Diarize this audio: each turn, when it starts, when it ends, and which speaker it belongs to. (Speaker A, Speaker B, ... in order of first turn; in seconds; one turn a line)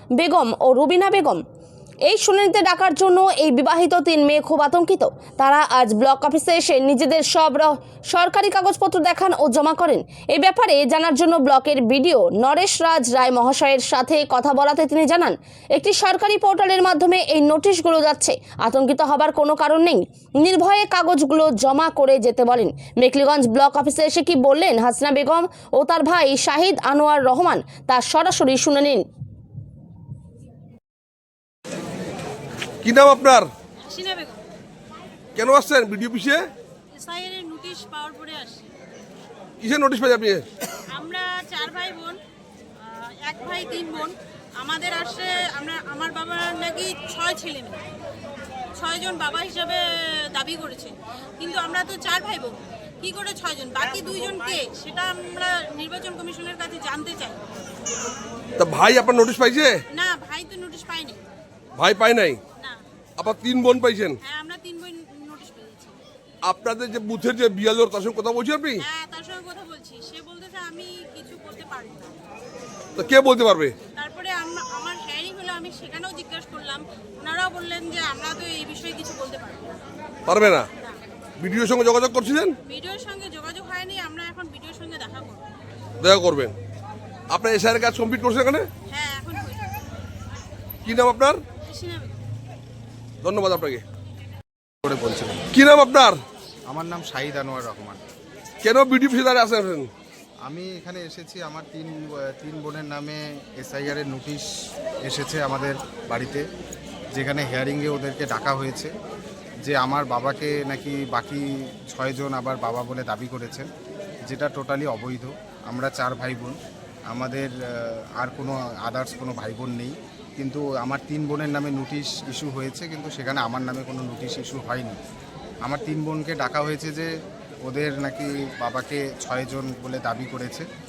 Speaker A: 0.2-1.4
Speaker A: 2.1-29.1
Speaker B: 32.8-33.5
Speaker C: 33.8-34.4
Speaker B: 35.3-36.4
Speaker C: 36.9-38.7
Speaker B: 39.6-40.5
Speaker C: 40.9-42.2
Speaker C: 42.8-47.8
Speaker C: 48.8-57.4
Speaker B: 58.6-59.8
Speaker C: 59.9-61.2
Speaker B: 61.8-62.4
Speaker C: 62.6-62.8
Speaker B: 63.2-64.2
Speaker C: 64.2-66.0
Speaker B: 66.4-68.8
Speaker C: 68.8-72.2
Speaker B: 73.0-73.8
Speaker C: 73.9-79.8
Speaker B: 80.2-80.7
Speaker B: 81.4-82.5
Speaker C: 82.6-85.5
Speaker B: 86.0-86.5
Speaker B: 87.3-88.7
Speaker C: 88.9-89.7
Speaker B: 90.8-91.4
Speaker C: 91.6-92.2
Speaker B: 93.2-93.8
Speaker D: 94.8-95.5
Speaker B: 95.5-96.2
Speaker D: 96.7-98.0
Speaker B: 98.6-99.9
Speaker D: 100.4-104.5
Speaker D: 105.0-106.4
Speaker D: 107.1-108.9
Speaker D: 109.7-113.7
Speaker D: 114.2-116.6
Speaker D: 117.1-125.0
Speaker D: 125.6-127.1
Speaker D: 127.6-130.7